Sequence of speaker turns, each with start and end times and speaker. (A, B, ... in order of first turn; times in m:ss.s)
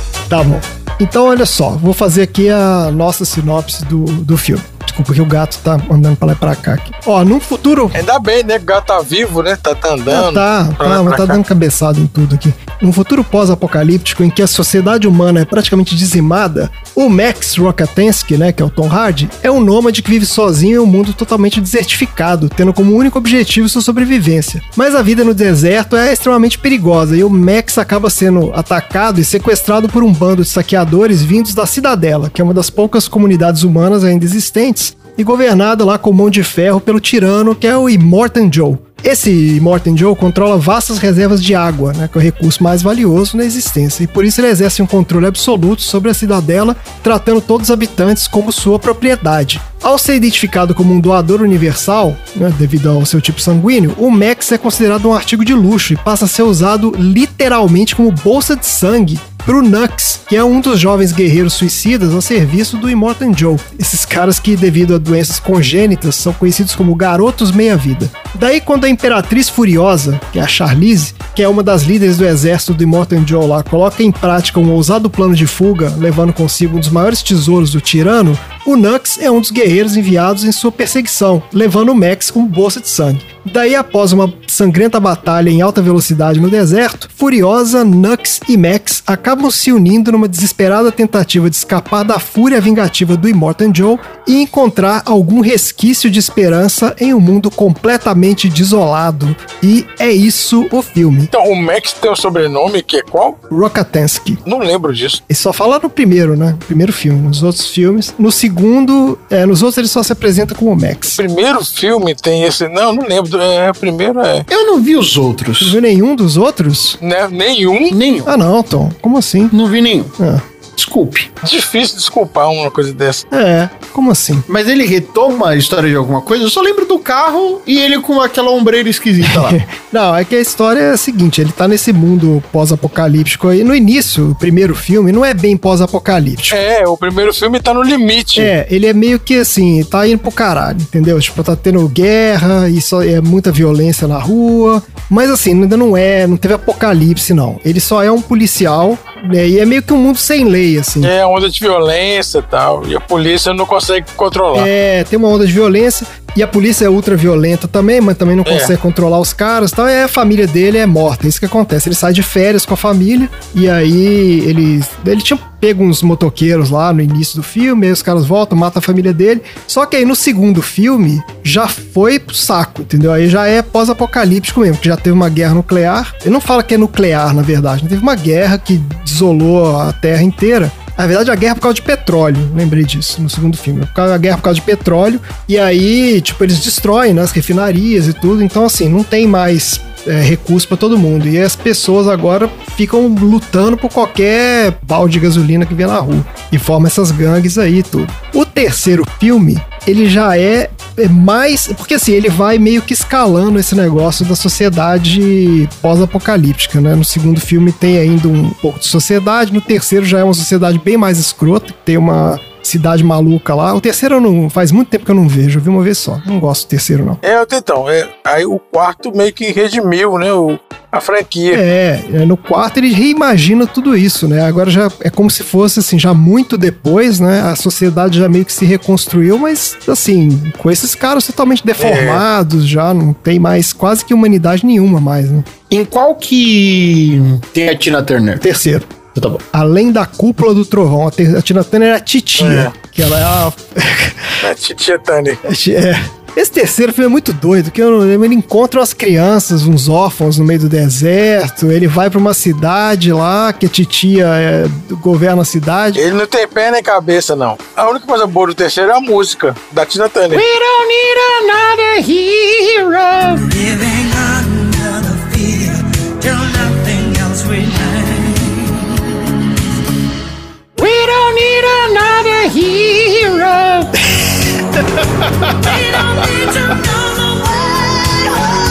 0:00.3-0:08.0 A
0:07.9-0:11.4 B
0:10.1-1:41.3 A
1:41.3-1:43.4 B
1:43.5-1:44.4 A
1:44.4-1:45.2 B
1:45.3-1:51.2 A
1:51.2-1:54.4 B
1:54.5-1:55.8 C
1:55.6-1:57.0 A
1:57.0-1:58.0 B
1:57.9-1:58.3 C
1:58.2-1:59.5 A
1:59.5-2:00.1 C
2:00.7-2:01.3 C
2:01.4-2:03.2 B
2:03.3-2:04.5 A
2:04.5-2:09.6 C
2:09.2-2:16.6 A
2:16.5-2:18.5 B
2:18.3-2:31.1 A
2:31.0-2:34.7 B
2:34.5-3:37.2 A
2:38.4-2:38.7 B
3:37.2-3:41.6 B
3:41.5-3:55.5 A
3:51.8-3:52.2 B
3:55.7-3:58.4 C
3:58.4-3:58.9 A
3:59.1-3:59.4 C
3:59.5-4:04.3 A
4:02.4-4:02.7 B
4:04.4-4:05.4 B
4:05.4-4:16.0 A
4:15.9-4:20.4 B
4:20.3-4:23.5 C
4:30.8-4:33.9 C